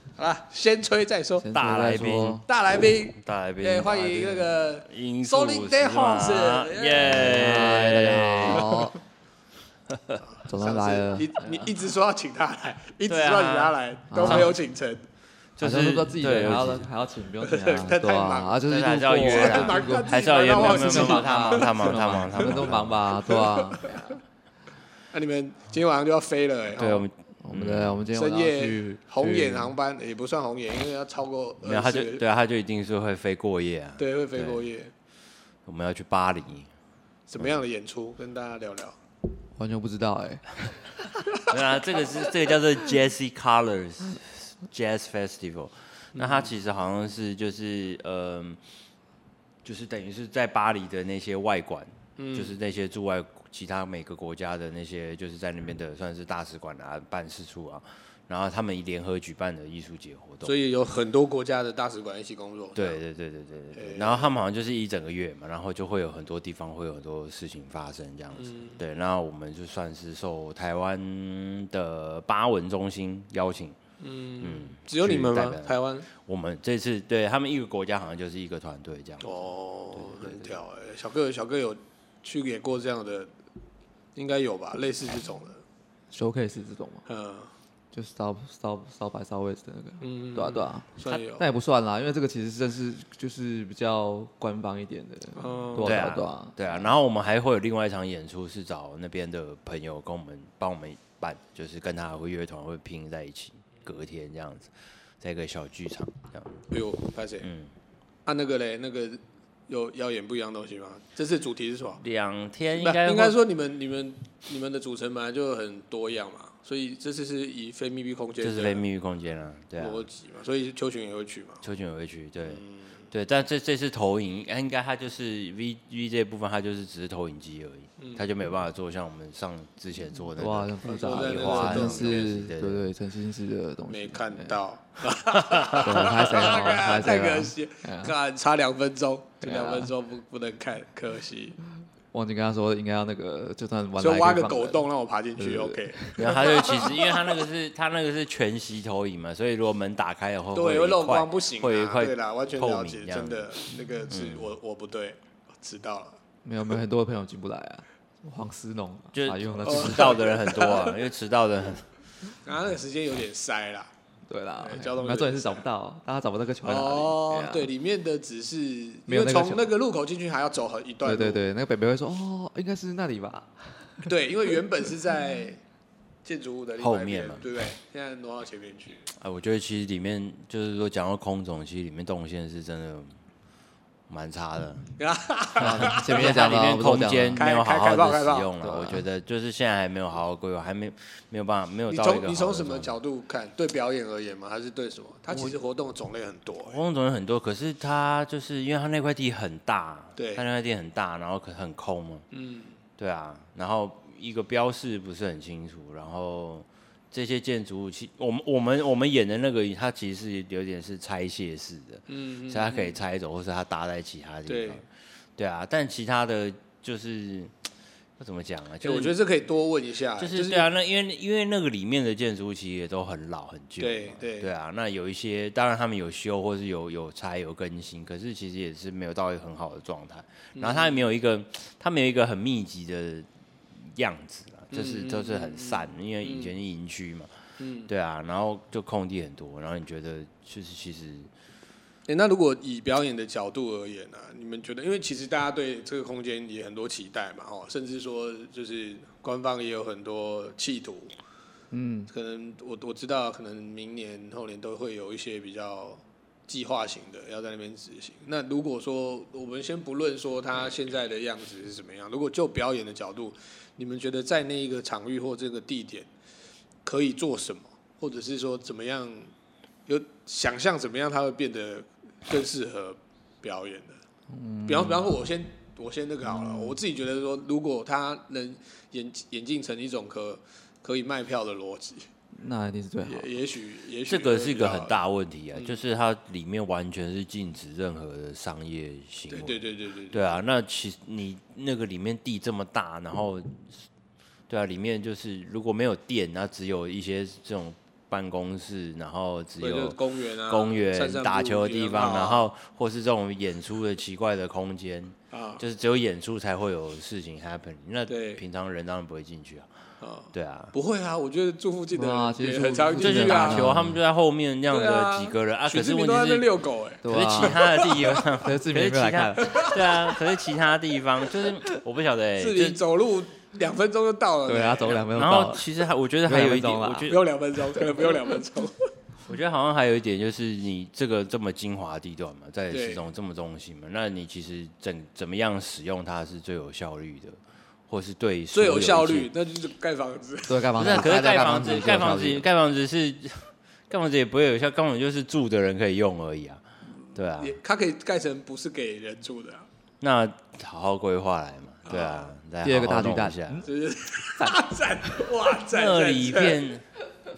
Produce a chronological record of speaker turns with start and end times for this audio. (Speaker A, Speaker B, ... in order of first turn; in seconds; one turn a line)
Speaker A: 0.2-1.5
Speaker B: 1.4-2.4
Speaker C: 1.5-2.4
Speaker A: 2.5-7.2
Speaker C: 3.1-8.8
Speaker B: 7.0-8.9
Speaker C: 9.9-10.2
Speaker B: 10.5-11.7
Speaker A: 10.5-15.0
Speaker C: 13.1-14.5
Speaker B: 14.1-14.5
Speaker C: 15.6-16.8
Speaker B: 15.6-24.2
Speaker A: 17.4-18.6
Speaker C: 18.6-23.1
Speaker A: 19.2-22.5
Speaker A: 23.2-24.1
Speaker A: 25.1-27.1
Speaker C: 26.8-28.0
Speaker B: 27.4-29.7
Speaker A: 28.1-32.2
Speaker C: 31.6-34.6
Speaker A: 34.0-34.9
Speaker C: 35.6-36.7
Speaker A: 37.3-39.0
Speaker B: 39.5-40.4
Speaker C: 41.5-48.6
Speaker A: 46.1-46.5
Speaker C: 49.6-60.5
Speaker A: 52.2-52.5
Speaker A: 60.4-63.0
Speaker C: 62.8-73.8
Speaker A: 63.7-64.3
Speaker A: 68.3-68.8
Speaker A: 74.0-76.1
Speaker C: 74.4-79.4
Speaker A: 79.2-83.3
Speaker C: 79.9-80.5
Speaker A: 84.2-85.6
Speaker B: 86.1-87.0
Speaker A: 87.0-87.5
Speaker B: 87.9-96.9
Speaker A: 90.0-91.4
Speaker A: 95.3-96.0
Speaker C: 95.8-106.5
Speaker A: 106.7-107.5
Speaker C: 107.4-107.7
Speaker A: 108.2-112.0
Speaker C: 112.0-113.3
Speaker A: 112.8-118.8
Speaker C: 118.4-120.0
Speaker A: 119.8-121.6
Speaker C: 121.6-132.8
Speaker A: 122.4-123.0
Speaker A: 128.0-128.2
Speaker B: 130.4-134.6
Speaker A: 130.8-132.3
Speaker A: 133.9-141.6
Speaker C: 135.5-136.1
Speaker B: 135.8-138.1
Speaker B: 139.4-139.9
Speaker B: 142.1-144.8
Speaker A: 144.0-147.4
Speaker B: 145.4-146.2
Speaker C: 146.2-154.6
Speaker A: 150.5-156.2
Speaker B: 156.4-160.2
Speaker C: 159.2-161.8
Speaker A: 159.6-160.9
Speaker A: 162.4-163.9
Speaker B: 164.3-167.7
Speaker A: 164.6-165.6
Speaker A: 166.6-171.4
Speaker B: 169.1-169.7
Speaker B: 171.0-174.0
Speaker A: 174.0-175.6
Speaker A: 176.2-179.1
Speaker C: 176.8-177.4
Speaker C: 179.2-183.1
Speaker C: 184.1-184.8
Speaker A: 185.0-186.4
Speaker B: 185.6-187.4
Speaker C: 185.6-192.9
Speaker A: 187.4-188.5
Speaker B: 188.6-189.0
Speaker A: 191.9-196.8
Speaker C: 196.7-202.2
Speaker A: 200.2-200.4
Speaker A: 202.3-202.7
Speaker C: 203.0-217.5
Speaker A: 212.1-213.0
Speaker A: 214.5-214.8
Speaker C: 218.2-219.2
Speaker A: 218.8-220.7
Speaker C: 220.2-233.3
Speaker A: 223.8-224.5
Speaker A: 230.6-231.1
Speaker C: 233.8-237.3
Speaker A: 234.7-236.5
Speaker A: 237.6-237.9
Speaker C: 237.9-241.3
Speaker A: 242.1-251.1
Speaker B: 251.7-252.1
Speaker A: 252.1-266.1
Speaker A: 266.8-269.3
Speaker A: 269.9-274.0
Speaker B: 274.3-275.1
Speaker A: 274.7-282.1
Speaker B: 276.3-276.8
Speaker B: 282.3-283.3
Speaker A: 283.1-284.9
Speaker C: 284.1-289.6
Speaker A: 285.5-285.8
Speaker A: 289.3-290.3
Speaker C: 290.1-293.8
Speaker C: 294.5-300.0
Speaker A: 299.6-302.4
Speaker C: 300.5-309.7
Speaker A: 305.3-305.6
Speaker A: 308.1-308.4
Speaker A: 310.0-313.7
Speaker C: 310.3-310.7
Speaker B: 311.9-314.0
Speaker C: 313.0-316.5
Speaker A: 314.7-318.2
Speaker B: 317.0-317.6
Speaker C: 317.0-322.8
Speaker B: 318.4-319.6
Speaker A: 319.4-319.8
Speaker A: 322.4-325.1
Speaker B: 324.4-325.7
Speaker C: 325.1-327.2
Speaker B: 326.2-327.1
Speaker A: 327.1-328.8
Speaker C: 329.2-337.4
Speaker A: 332.7-333.0
Speaker C: 337.9-339.3
Speaker A: 338.5-341.5
Speaker B: 340.5-342.5
Speaker C: 340.8-346.6
Speaker C: 347.1-347.6
Speaker A: 347.4-349.7
Speaker C: 350.0-353.6
Speaker A: 351.9-352.3
Speaker B: 352.6-353.6
Speaker A: 353.6-356.6
Speaker C: 355.7-356.8